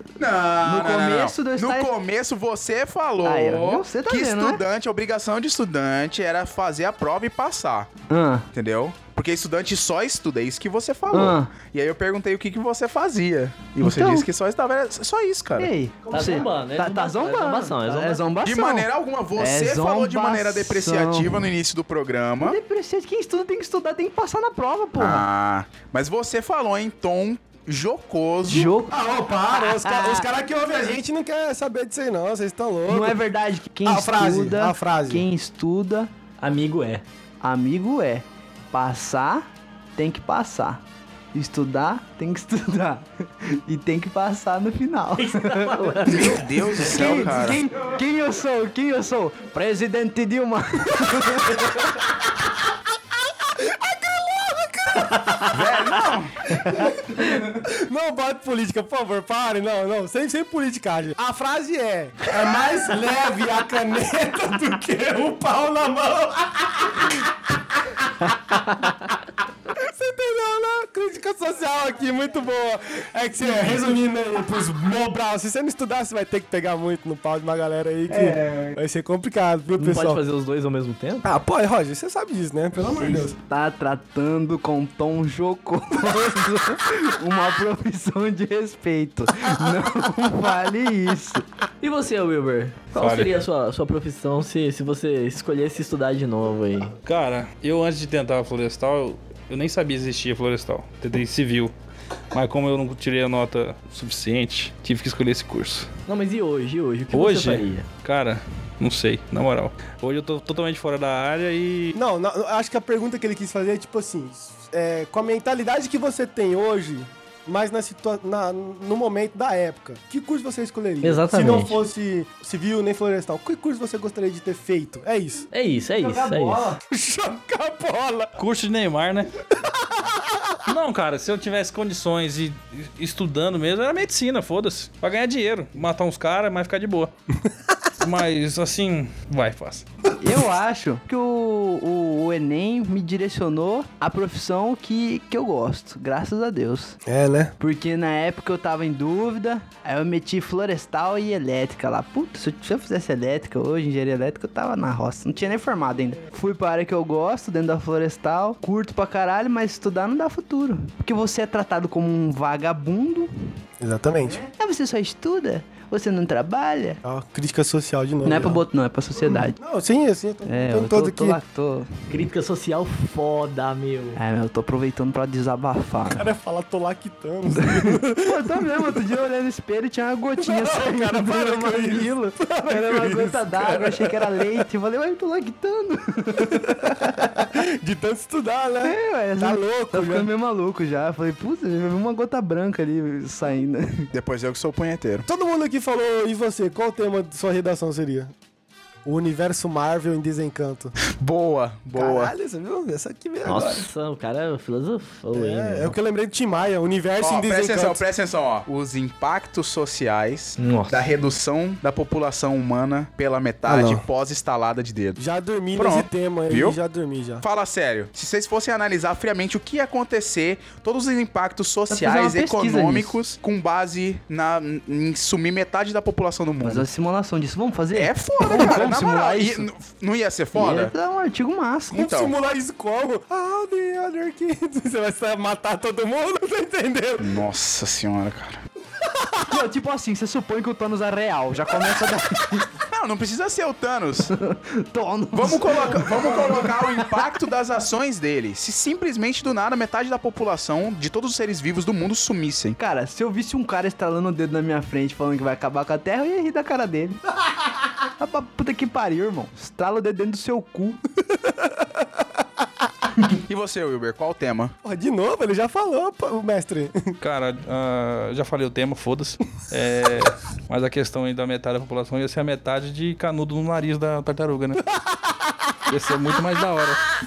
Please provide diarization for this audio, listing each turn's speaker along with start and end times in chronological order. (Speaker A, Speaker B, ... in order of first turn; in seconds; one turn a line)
Speaker A: 0.2-7.9
Speaker B: 0.6-1.9
Speaker B: 3.2-4.6
Speaker B: 8.1-8.5
Speaker A: 8.5-15.7
Speaker B: 11.1-11.5
Speaker B: 13.8-14.3
Speaker B: 15.6-21.4
Speaker C: 16.1-18.3
Speaker A: 18.4-22.6
Speaker B: 22.4-25.2
Speaker A: 25.0-28.7
Speaker B: 28.4-29.0
Speaker D: 28.9-33.2
Speaker B: 29.5-30.3
Speaker B: 32.9-36.1
Speaker D: 33.9-35.3
Speaker C: 36.4-37.0
Speaker B: 37.4-40.8
Speaker B: 41.3-51.9
Speaker C: 45.2-46.7
Speaker A: 46.0-47.6
Speaker D: 51.5-51.9
Speaker D: 53.4-55.8
Speaker A: 55.5-56.5
Speaker D: 56.6-69.1
Speaker D: 69.7-80.2
Speaker C: 79.8-81.3
Speaker D: 81.2-83.4
Speaker B: 83.4-91.5
Speaker C: 91.8-97.0
Speaker E: 93.0-93.4
Speaker E: 97.0-101.7
Speaker E: 102.3-105.9
Speaker C: 106.1-107.9
Speaker E: 107.1-112.0
Speaker D: 111.9-125.5
Speaker C: 121.0-121.8
Speaker C: 125.5-126.7
Speaker D: 126.0-128.4
Speaker E: 128.4-129.4
Speaker D: 129.6-130.6
Speaker E: 130.7-137.1
Speaker E: 138.0-139.9
Speaker B: 140.2-147.0
Speaker D: 147.1-147.5
Speaker B: 147.6-163.3
Speaker D: 163.8-164.4
Speaker B: 164.2-167.0
Speaker D: 167.0-168.6
Speaker B: 168.2-169.6
Speaker D: 169.2-171.4
Speaker B: 170.5-172.0
Speaker C: 172.1-174.2
Speaker B: 174.2-176.3
Speaker D: 176.2-178.9
Speaker B: 177.6-187.5
Speaker D: 180.4-184.5
Speaker D: 186.5-190.3
Speaker B: 188.8-194.1
Speaker A: 194.1-195.3
Speaker D: 195.3-198.3
Speaker D: 199.1-200.9
Speaker A: 201.1-202.3
Speaker D: 201.9-203.9
Speaker C: 203.4-205.9
Speaker D: 205.3-208.0
Speaker A: 207.2-215.2
Speaker C: 210.6-211.1
Speaker D: 213.7-214.0
Speaker D: 215.2-217.4
Speaker A: 215.8-216.8
Speaker A: 217.4-226.9
Speaker B: 221.9-223.2
Speaker B: 226.6-229.7
Speaker A: 227.9-230.9
Speaker B: 230.6-232.0
Speaker D: 231.9-237.4
Speaker A: 231.9-232.3
Speaker A: 237.2-238.6
Speaker D: 239.0-239.6
Speaker B: 239.5-242.7
Speaker A: 242.9-244.3
Speaker B: 244.3-246.9
Speaker A: 245.3-252.8
Speaker B: 252.8-257.2
Speaker B: 258.2-261.0
Speaker D: 261.4-262.1
Speaker A: 263.3-264.7
Speaker D: 264.8-267.2
Speaker E: 267.2-274.9
Speaker D: 274.9-275.8
Speaker E: 275.9-277.1